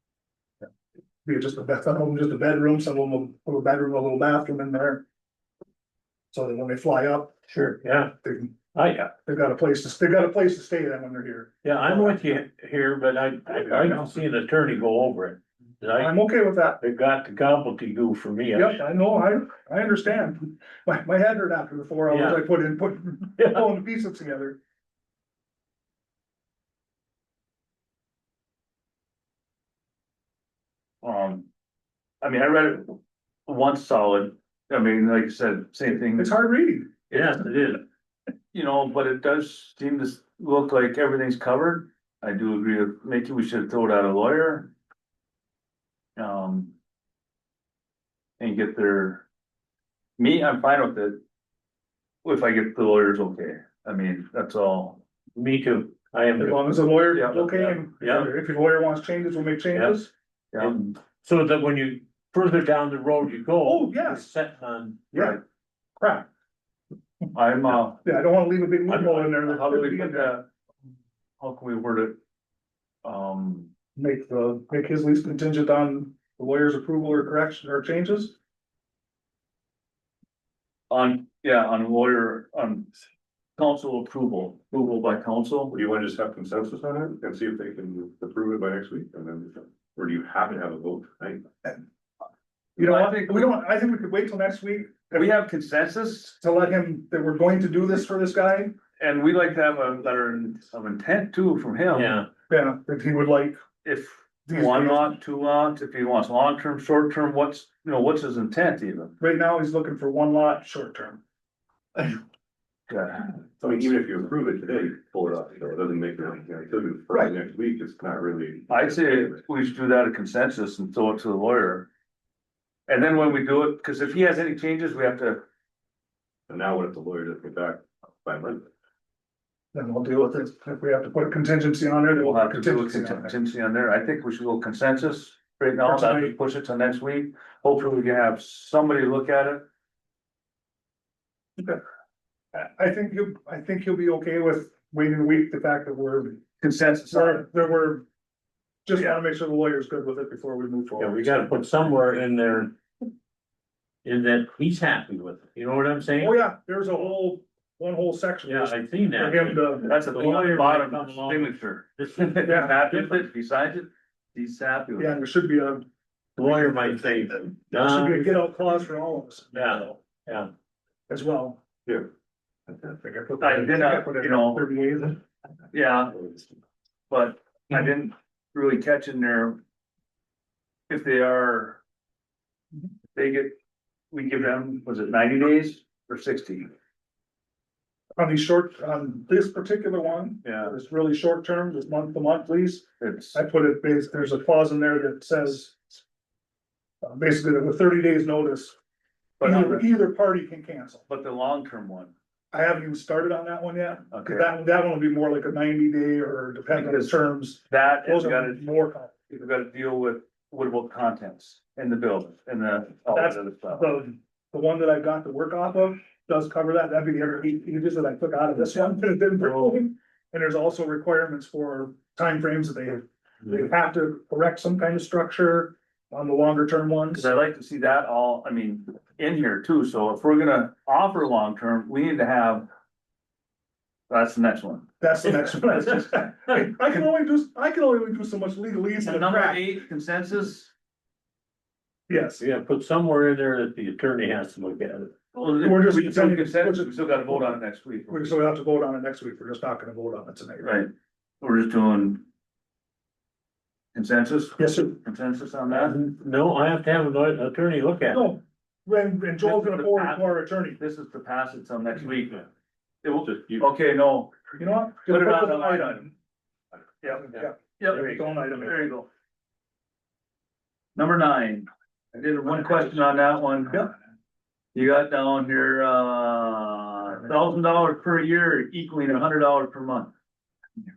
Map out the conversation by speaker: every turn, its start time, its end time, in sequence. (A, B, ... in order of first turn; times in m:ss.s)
0:01.2-0:05.0 A
0:06.3-0:07.3 A
0:07.5-0:08.1 B
0:08.2-0:08.5 A
0:08.7-0:09.1 B
0:09.2-0:12.1 A
0:11.6-0:18.8 B
0:16.0-0:16.8 A
0:18.5-0:24.6 A
0:22.1-0:22.4 B
0:23.4-0:23.7 B
0:31.0-0:31.4 C
0:32.2-0:36.4 C
0:36.2-0:36.9 A
0:37.1-0:37.6 C
0:37.1-0:37.8 B
0:38.5-0:44.7 C
0:46.2-0:46.7 C
0:48.4-0:49.2 C
0:50.2-0:51.2 C
0:52.2-0:55.0 C
0:55.4-0:58.3 B
0:56.4-1:00.1 A
0:57.1-0:57.8 C
0:59.7-1:00.1 B
1:00.5-1:00.9 C
1:00.6-1:05.0 B
1:03.6-1:04.2 A
1:05.1-1:05.4 A
1:05.1-1:05.4 C
1:06.0-1:06.3 A
1:07.3-1:08.0 C
1:08.0-1:10.4 A
1:08.9-1:10.4 C
1:11.4-1:12.2 C
1:13.0-1:13.7 C
1:14.0-1:18.3 A
1:20.9-1:22.9 C
1:23.6-1:25.7 C
1:25.7-1:31.4 D
1:32.8-1:35.3 A
1:32.8-1:33.5 C
1:35.1-1:36.4 C
1:36.4-1:38.7 A
1:39.0-1:42.2 C
1:41.9-1:42.3 B
1:42.5-1:43.6 A
1:43.8-1:49.2 C
1:44.5-1:45.1 A
1:49.2-1:51.2 A
1:52.9-1:53.2 C
1:53.6-1:59.4 D
1:58.7-2:01.9 C
2:02.9-2:05.4 C
2:06.5-2:08.6 D
2:09.7-2:13.3 A
2:12.2-2:19.6 C
2:15.8-2:16.3 A
2:22.5-2:26.4 A
2:26.6-2:27.4 C
2:27.1-2:28.0 A
2:28.8-2:31.4 A
2:31.0-2:32.7 B
2:34.0-2:36.4 B
2:36.2-2:39.9 A
2:38.4-2:43.2 B
2:39.8-2:45.1 C
2:42.5-2:42.7 A
2:45.0-2:45.8 A
2:46.4-2:48.4 B
2:47.8-2:49.9 A
2:49.5-2:50.5 B
2:51.1-2:51.6 A
2:53.0-2:55.2 A
2:53.4-2:54.6 C
2:55.7-2:56.3 C
2:57.1-2:59.6 C
3:00.9-3:01.8 C
3:03.1-3:03.5 C
3:04.1-3:06.7 C
3:08.2-3:16.0 A
3:10.4-3:10.7 C
3:13.0-3:13.4 C
3:17.0-3:18.8 A
3:19.4-3:19.9 C
3:19.4-3:21.0 A
3:21.1-3:22.1 C
3:22.5-3:29.1 A
3:24.1-3:24.5 C
3:26.7-3:27.2 C
3:27.7-3:28.6 C
3:29.3-3:34.0 C
3:33.1-3:47.3 A
3:38.6-3:39.8 C
3:47.1-3:52.7 C
3:54.1-3:55.7 C
3:55.0-3:59.8 A
3:59.0-4:00.7 C
4:02.1-4:02.4 A
4:02.4-4:05.1 B
4:05.3-4:08.4 C
4:05.6-4:07.4 A
4:08.1-4:10.7 A
4:10.6-4:10.9 C
4:11.4-4:12.2 C
4:13.9-4:16.0 C
4:14.6-4:15.0 A
4:15.7-4:18.3 B
4:18.1-4:20.8 A
4:19.4-4:22.4 C
4:23.0-4:24.4 C
4:23.2-4:23.7 D
4:24.6-4:26.1 A
4:25.0-4:26.1 C
4:27.0-4:29.1 C
4:27.3-4:28.8 A
4:27.9-4:28.2 B
4:31.0-4:33.9 C
4:34.7-4:40.1 C